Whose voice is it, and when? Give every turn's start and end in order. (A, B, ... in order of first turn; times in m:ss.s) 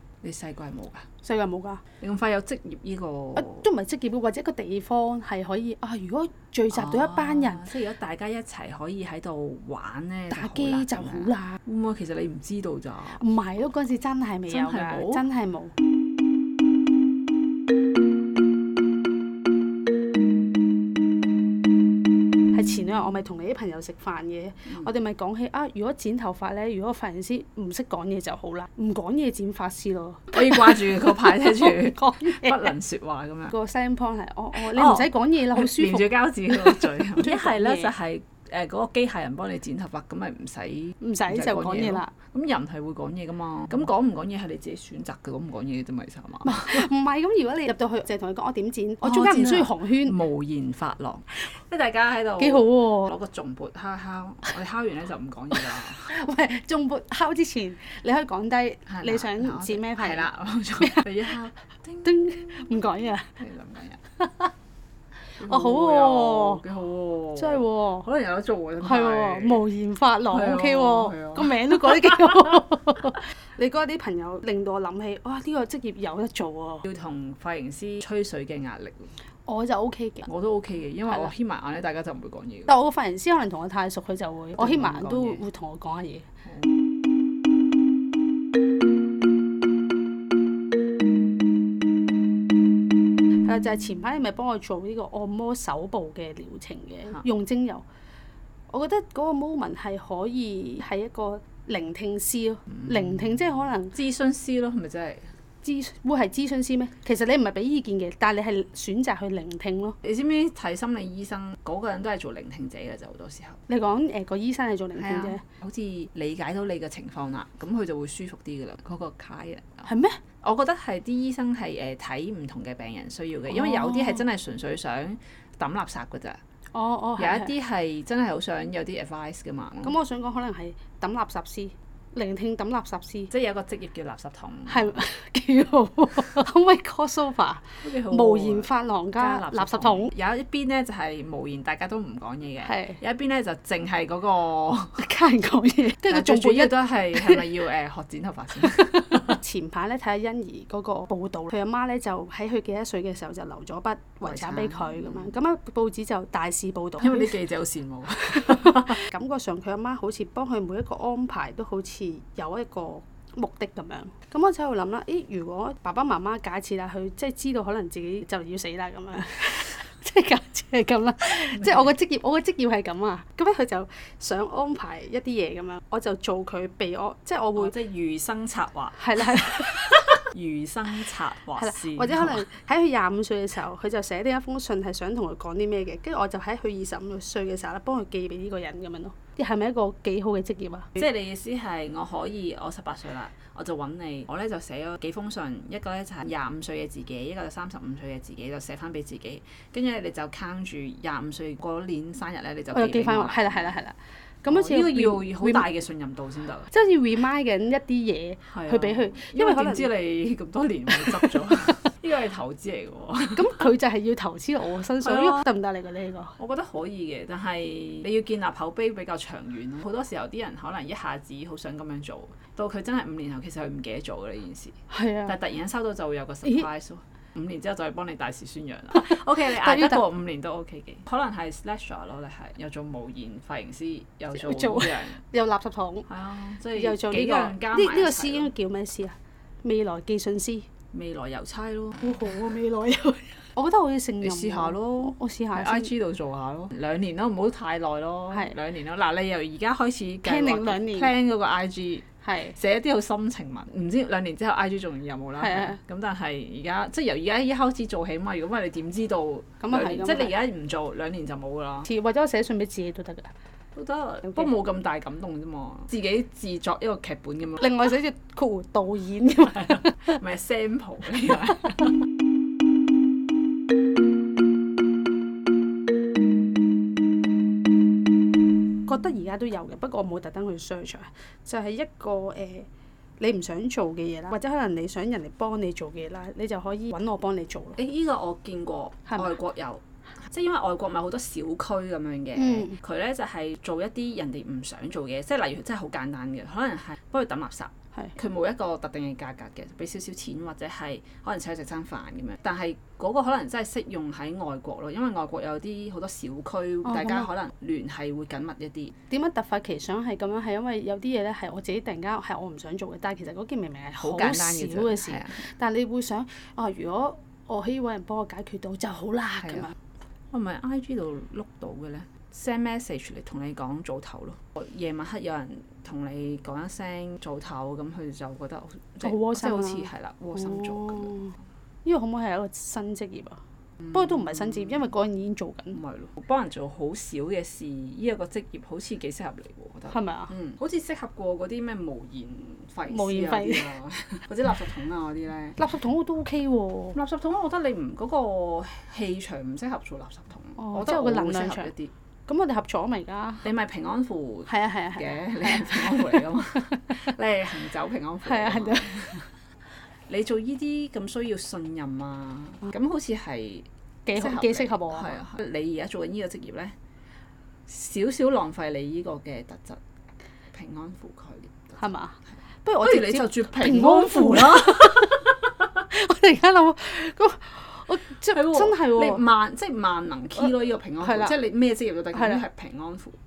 0:00.2-0:01.1 A
0:01.2-0:01.8 B
0:02.0-0:03.6 A
0:03.4-0:07.6 B
0:06.7-0:13.2 A
0:10.3-0:11.6 B
0:13.2-0:15.7 B
0:14.5-0:15.2 A
0:22.5-0:32.7 B
0:30.3-0:33.5 A
0:33.5-0:37.9 B
0:34.5-0:46.9 A
0:41.0-0:42.1 B
0:46.4-0:50.2 B
0:49.0-0:56.1 A
0:52.4-0:53.1 B
0:55.9-1:00.3 B
0:58.9-1:02.2 A
1:02.0-1:03.3 B
1:03.4-1:04.0 A
1:04.2-1:04.5 B
1:05.4-1:06.6 B
1:05.4-1:09.6 A
1:07.4-1:08.1 B
1:08.8-1:16.8 B
1:10.3-1:12.6 A
1:16.8-1:19.1 A
1:19.4-1:20.3 B
1:20.2-1:22.7 A
1:22.7-1:26.3 B
1:24.6-1:25.4 A
1:33.4-1:37.8 B
1:38.7-1:44.0 B
1:42.8-1:45.3 A
1:45.6-1:50.0 B
1:50.0-1:53.6 A
1:53.7-1:55.4 B
1:55.0-1:59.9 A
1:59.9-2:00.2 B
2:00.4-2:06.4 A
2:03.5-2:04.2 B
2:06.7-2:07.5 B
2:07.2-2:09.9 A
2:09.8-2:13.3 B
2:13.3-2:15.0 A
2:14.7-2:20.1 B
2:17.8-2:25.1 A
2:22.6-2:23.0 B
2:25.0-2:27.4 B
2:26.0-2:29.4 A
2:28.8-2:37.4 B
2:34.2-2:35.3 A
2:37.0-2:39.0 A
2:38.6-2:57.7 B
2:57.6-3:02.4 A
2:59.0-2:59.9 B
3:01.6-3:11.0 B
3:11.0-3:23.8 A
3:22.7-3:25.7 B
3:24.5-3:26.7 A
3:26.7-3:29.9 B
3:28.5-3:33.7 A
3:30.9-3:31.6 B
3:33.3-3:36.4 B
3:35.0-3:35.4 A
3:36.4-3:55.2 A
3:44.9-3:45.3 B
3:49.0-3:50.0 B
3:54.3-3:56.1 B
3:56.1-3:58.5 A
3:56.8-4:00.7 B
4:00.9-4:02.5 A
4:02.0-4:05.9 B
4:04.2-4:21.9 A
4:10.2-4:11.1 B
4:12.2-4:12.5 B
4:15.4-4:15.8 B
4:19.6-4:20.3 B
4:21.8-4:23.3 B
4:23.7-4:27.8 A
4:27.6-4:30.2 B
4:29.5-4:31.9 A
4:38.8-4:42.7 B
4:43.2-4:47.8 B
4:47.8-5:08.9 A
4:52.4-4:52.8 B
5:06.8-5:07.3 B
5:09.1-5:19.7 B
5:14.0-5:15.4 A
5:20.3-5:31.2 A
5:29.0-5:31.3 B
5:31.8-5:33.4 B
5:33.8-5:34.8 A
5:33.9-5:35.8 B
5:35.7-5:45.6 A
5:39.9-5:40.3 B
5:42.9-5:43.7 B
5:45.6-5:47.0 B
5:46.9-5:51.9 A
5:50.6-5:51.7 B
5:52.3-5:53.4 B
5:53.4-5:59.2 A
5:54.5-5:57.0 B
5:58.2-5:59.2 B
6:00.1-6:06.7 A
6:04.0-6:05.2 B
6:07.7-6:09.8 A
6:10.5-6:11.9 A
6:11.8-6:19.2 B
6:12.8-6:15.3 A
6:18.3-6:23.2 A
6:21.0-6:21.3 B
6:22.1-6:22.4 B